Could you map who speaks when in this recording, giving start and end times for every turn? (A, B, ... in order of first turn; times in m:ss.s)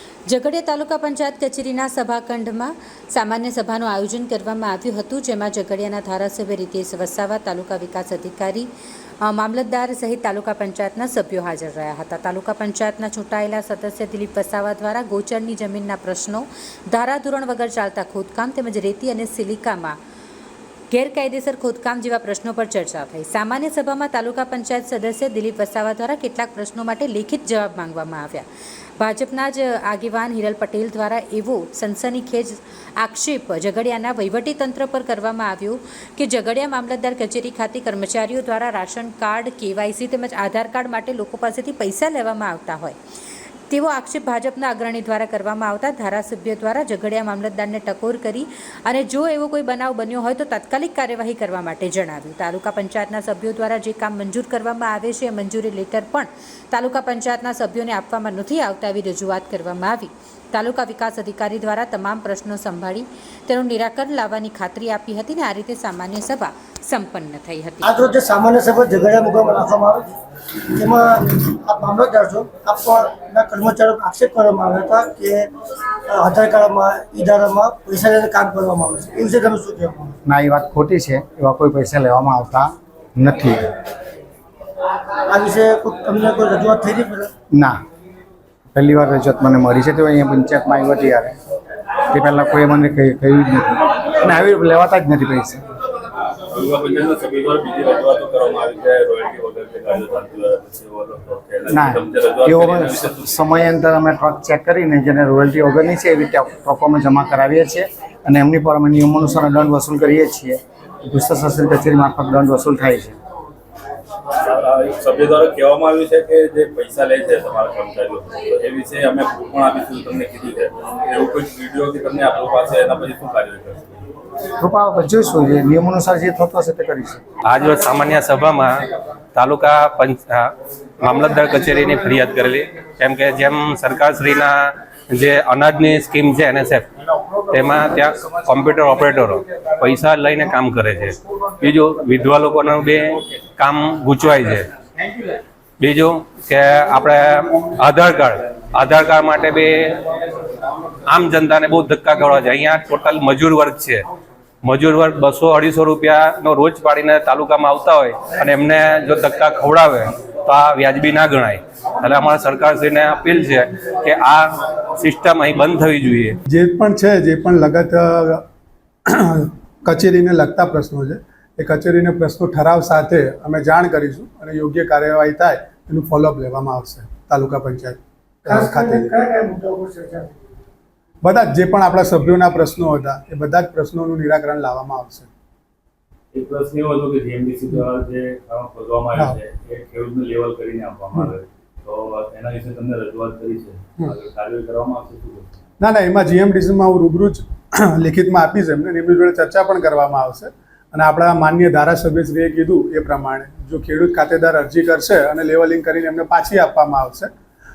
0:00.3-0:08.7 A
0:09.2-0:20.0 A
0:20.9-0:28.4 A
0:29.0-0:43.0 A
0:43.7-1:08.0 A
1:07.8-1:10.1 B
1:10.7-1:15.5 B
1:16.1-1:20.2 B
1:20.2-1:23.7 C
1:25.3-1:27.3 B
1:27.5-1:27.8 C
1:28.7-1:31.4 C
1:32.1-1:35.6 C
1:36.5-1:43.3 D
1:41.7-1:53.2 C
1:54.4-2:04.0 D
2:04.6-2:07.2 C
2:07.4-2:08.8 E
2:09.3-2:16.9 E
2:17.5-2:24.7 E
2:25.8-2:30.0 E
2:31.1-2:34.0 E
2:34.6-2:46.4 E
2:46.5-2:48.4 F
2:49.1-2:59.1 F
2:58.5-3:00.4 B
3:01.2-3:05.3 F
3:06.3-3:15.7 D
3:15.8-3:27.3 F